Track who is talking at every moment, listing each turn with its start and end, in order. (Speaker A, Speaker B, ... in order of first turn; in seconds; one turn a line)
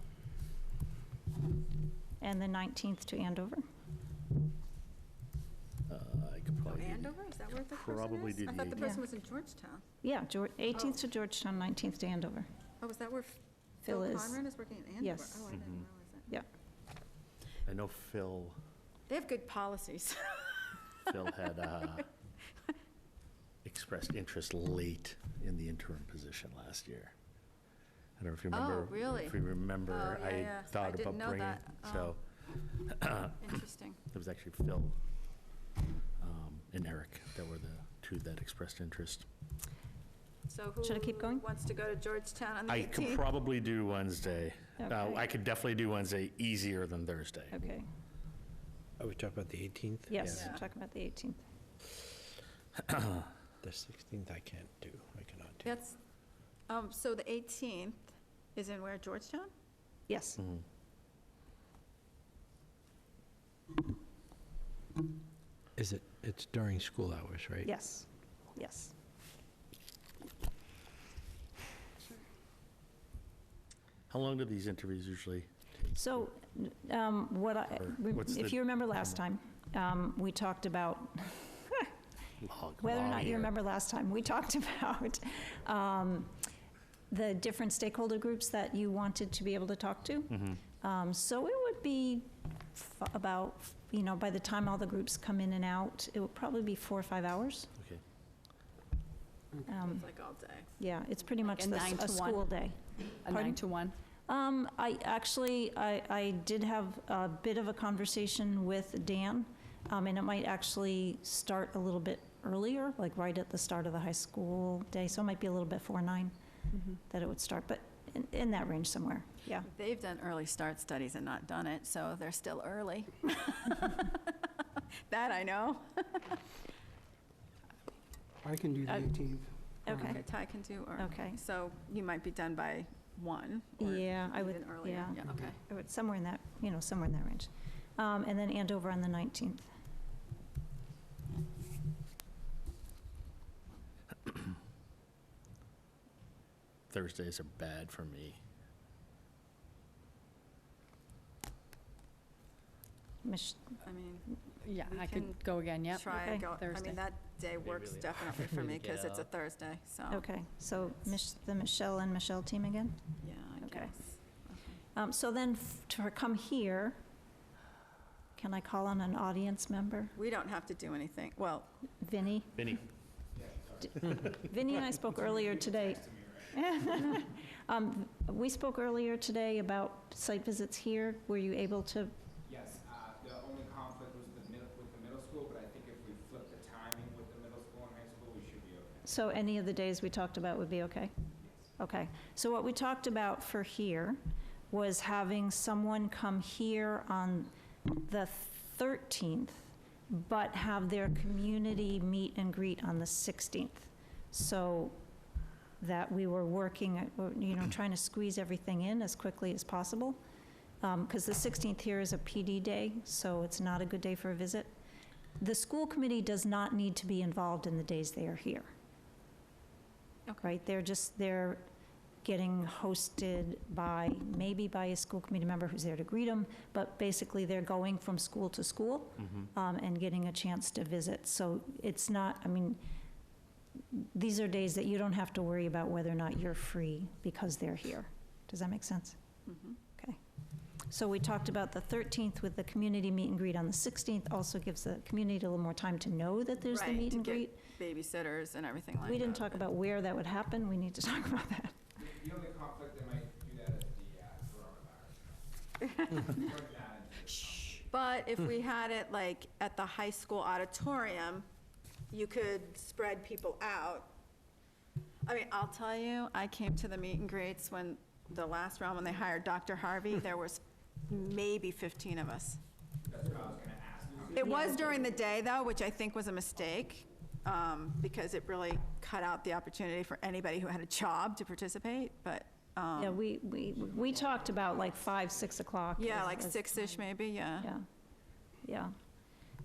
Speaker A: 2.2-3.6
Speaker B: 5.9-8.9
Speaker C: 6.7-9.8
Speaker A: 10.0-12.5
Speaker C: 12.8-16.4
Speaker A: 13.8-14.4
Speaker A: 15.0-15.4
Speaker B: 15.5-15.8
Speaker B: 17.6-18.6
Speaker C: 19.1-21.1
Speaker B: 21.1-22.1
Speaker B: 23.6-27.1
Speaker B: 28.2-32.2
Speaker C: 28.5-32.2
Speaker B: 32.7-33.4
Speaker C: 33.4-34.0
Speaker B: 34.1-35.0
Speaker B: 36.2-39.2
Speaker C: 40.5-43.2
Speaker A: 40.8-41.4
Speaker B: 42.7-47.7
Speaker A: 44.8-45.2
Speaker A: 47.5-47.9
Speaker D: 49.0-50.4
Speaker A: 50.1-51.4
Speaker C: 50.3-50.6
Speaker D: 53.6-55.7
Speaker C: 55.6-56.0
Speaker C: 56.7-59.5
Speaker A: 60.1-60.4
Speaker B: 60.4-60.6
Speaker D: 65.8-67.7
Speaker A: 67.7-68.9
Speaker B: 74.1-75.9
Speaker A: 75.9-81.9
Speaker B: 77.8-78.6
Speaker B: 82.4-83.5
Speaker A: 82.8-86.4
Speaker A: 87.1-97.7
Speaker B: 90.3-90.6
Speaker A: 99.7-100.0
Speaker C: 99.7-100.7
Speaker A: 100.8-103.6
Speaker E: 101.5-102.5
Speaker E: 103.2-103.9
Speaker A: 104.3-116.3
Speaker A: 117.0-119.7
Speaker C: 119.6-124.3
Speaker C: 125.1-126.4
Speaker F: 128.4-129.5
Speaker A: 128.8-129.1
Speaker A: 129.8-130.2
Speaker C: 129.9-135.6
Speaker A: 131.0-131.4
Speaker A: 133.8-139.7
Speaker B: 146.9-148.4
Speaker A: 153.2-153.8
Speaker C: 153.8-160.2
Speaker E: 154.6-157.0
Speaker A: 156.1-156.4
Speaker F: 157.6-159.3
Speaker A: 160.1-163.0
Speaker C: 163.2-164.8
Speaker A: 163.6-163.9
Speaker A: 164.9-167.0
Speaker A: 168.3-170.1
Speaker C: 170.2-171.7
Speaker A: 172.0-172.6
Speaker B: 172.6-172.8
Speaker G: 173.3-174.3
Speaker A: 174.2-176.0
Speaker G: 175.3-176.9
Speaker A: 176.5-182.1
Speaker G: 182.4-189.1
Speaker A: 189.1-191.1
Speaker A: 191.8-194.2
Speaker A: 194.7-205.0
Speaker A: 205.8-210.2
Speaker A: 210.8-214.7
Speaker A: 215.4-218.7
Speaker C: 220.3-220.5
Speaker A: 220.4-221.6
Speaker A: 222.2-232.8
Speaker A: 233.9-239.2
Speaker C: 239.4-239.8
Speaker A: 240.9-247.6
Speaker C: 246.6-249.6
Speaker A: 249.0-251.8
Speaker G: 252.0-255.4
Speaker C: 255.8-256.5
Speaker G: 256.1-257.9
Speaker C: 257.3-261.4
Speaker C: 262.1-264.1
Speaker C: 265.2-272.6
Speaker G: 273.0-275.0
Speaker C: 274.3-283.2
Speaker A: 274.4-274.9
Speaker A: 283.0-287.9
Speaker C: 286.0-287.7
Speaker A: 288.6-288.9